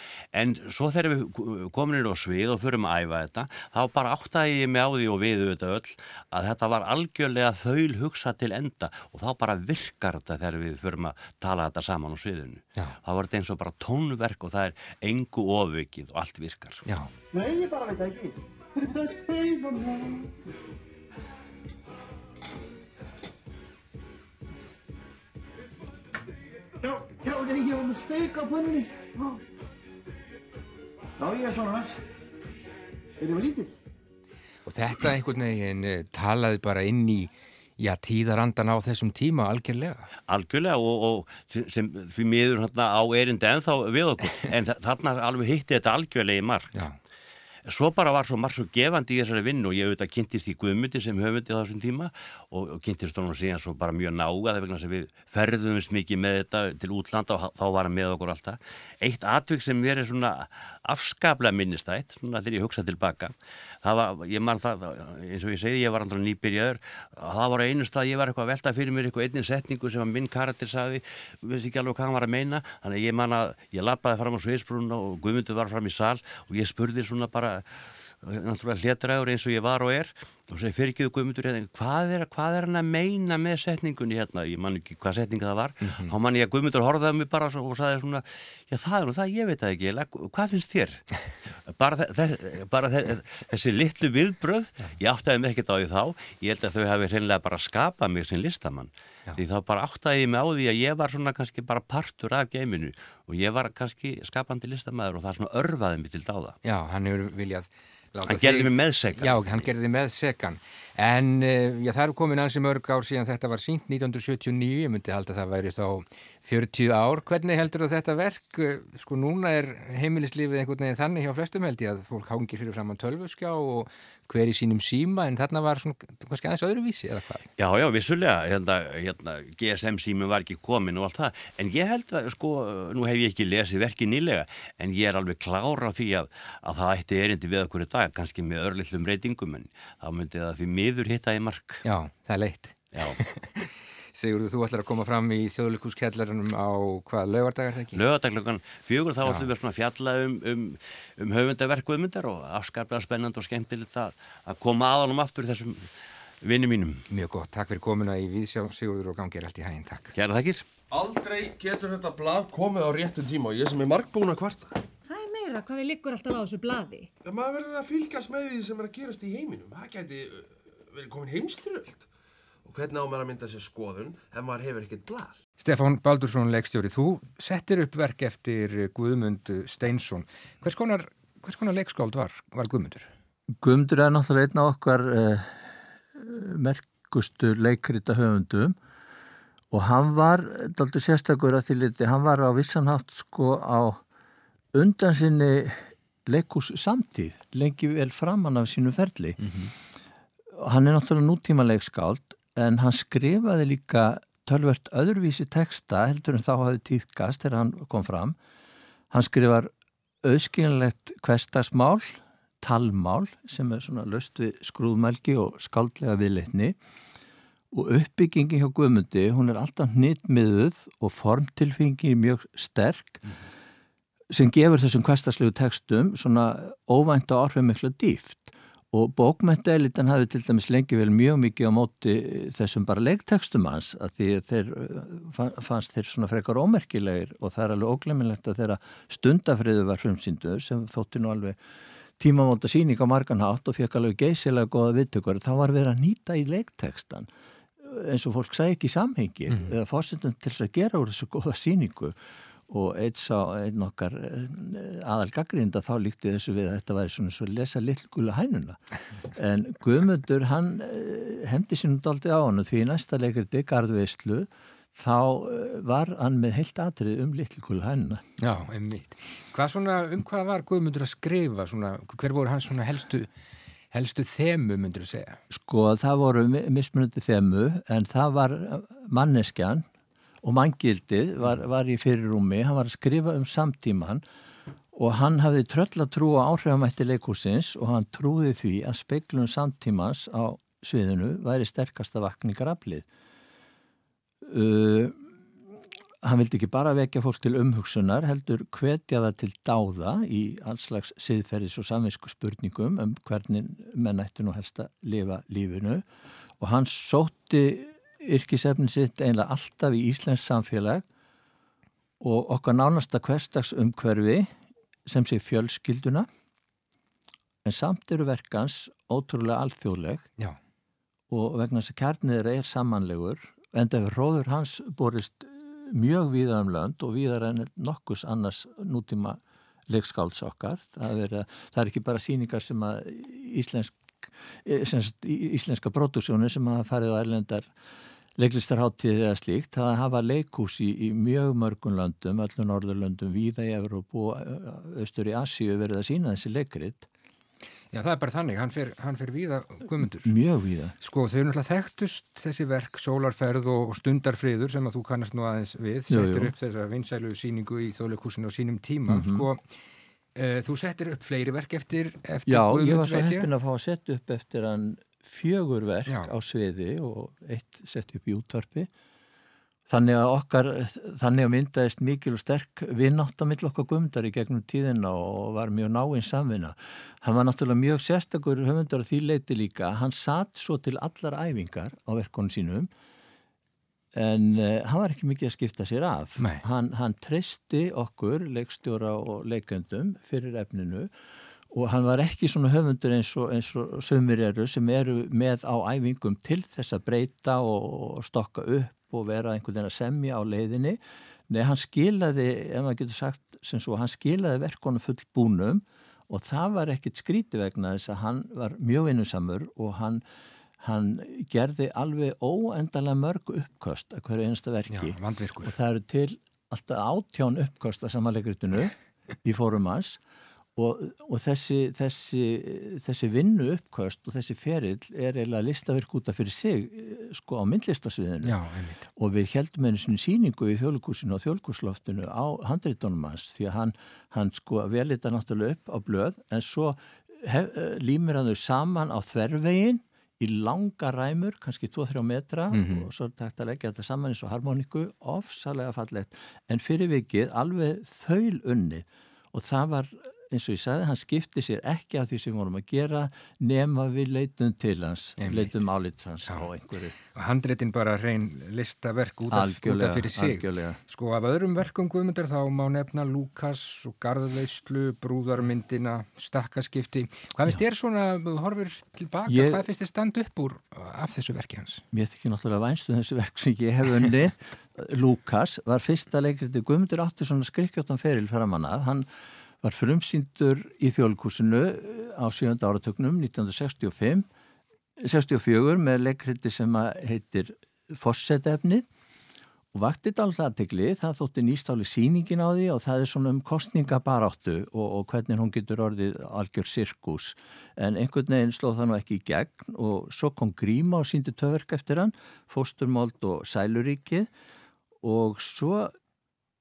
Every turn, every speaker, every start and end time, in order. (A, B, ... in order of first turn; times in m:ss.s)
0:00.3-0:16.8 A
0:17.3-0:20.3 B
0:26.8-0:29.4 B
0:31.2-0:32.0 B
0:33.2-0:33.7 B
0:34.7-0:40.1 C
0:40.3-0:46.8 A
0:47.7-1:46.6 A
1:25.8-1:26.1 C
1:46.6-2:07.5 C
1:48.3-1:49.6 A
2:07.6-2:21.8 A
2:21.8-2:28.0 C
2:22.9-2:23.2 A
2:27.9-2:37.0 A
2:37.1-2:40.1 C
2:40.2-2:40.7 A
2:40.9-2:44.8 D
2:45.1-2:47.1 E
2:47.2-2:52.1 D
2:52.6-2:55.4 D
2:55.6-3:03.1 C
3:03.6-3:08.8 F
3:09.7-3:14.0 F
3:14.8-3:19.4 F
3:19.4-3:19.7 C
3:20.6-3:28.4 F
3:29.1-3:29.7 F
3:30.2-3:36.8 F
3:37.7-3:43.2 F
3:44.3-4:01.6 F
4:02.2-4:07.3 F
4:07.8-4:12.2 F
4:12.7-4:18.8 F
4:19.3-4:28.2 F
4:28.4-4:33.3 C
4:33.9-4:35.4 C
4:35.5-4:39.9 F
4:40.4-4:44.2 F
4:44.9-4:53.1 F
4:54.4-4:55.2 F
4:56.2-5:06.0 F
5:06.6-5:11.0 F
5:12.2-5:14.5 F
5:15.1-5:16.3 F
5:17.6-5:20.3 F
5:21.3-5:37.7 F
5:38.4-5:47.1 F
5:47.9-5:50.3 C
5:50.2-5:50.9 F
5:51.0-5:59.6 C
5:56.1-5:56.5 F
5:59.1-5:59.5 F
6:00.4-6:03.5 C
6:02.5-6:08.9 F
6:09.9-6:22.9 F
6:24.1-6:31.1 F
6:26.4-6:26.6 C
6:31.7-6:50.2 F
6:50.8-7:00.2 F
6:54.9-6:55.7 C
7:00.8-7:08.6 F
7:08.4-7:09.0 C
7:09.2-7:37.2 F
7:22.7-7:23.1 C
7:35.4-7:35.8 C
7:37.3-7:52.0 C
7:39.5-7:41.0 F
7:49.5-7:49.8 F
7:52.1-7:59.3 F
7:59.8-8:04.5 F
8:05.2-8:09.1 F
8:09.9-8:24.5 F
8:25.2-8:26.2 F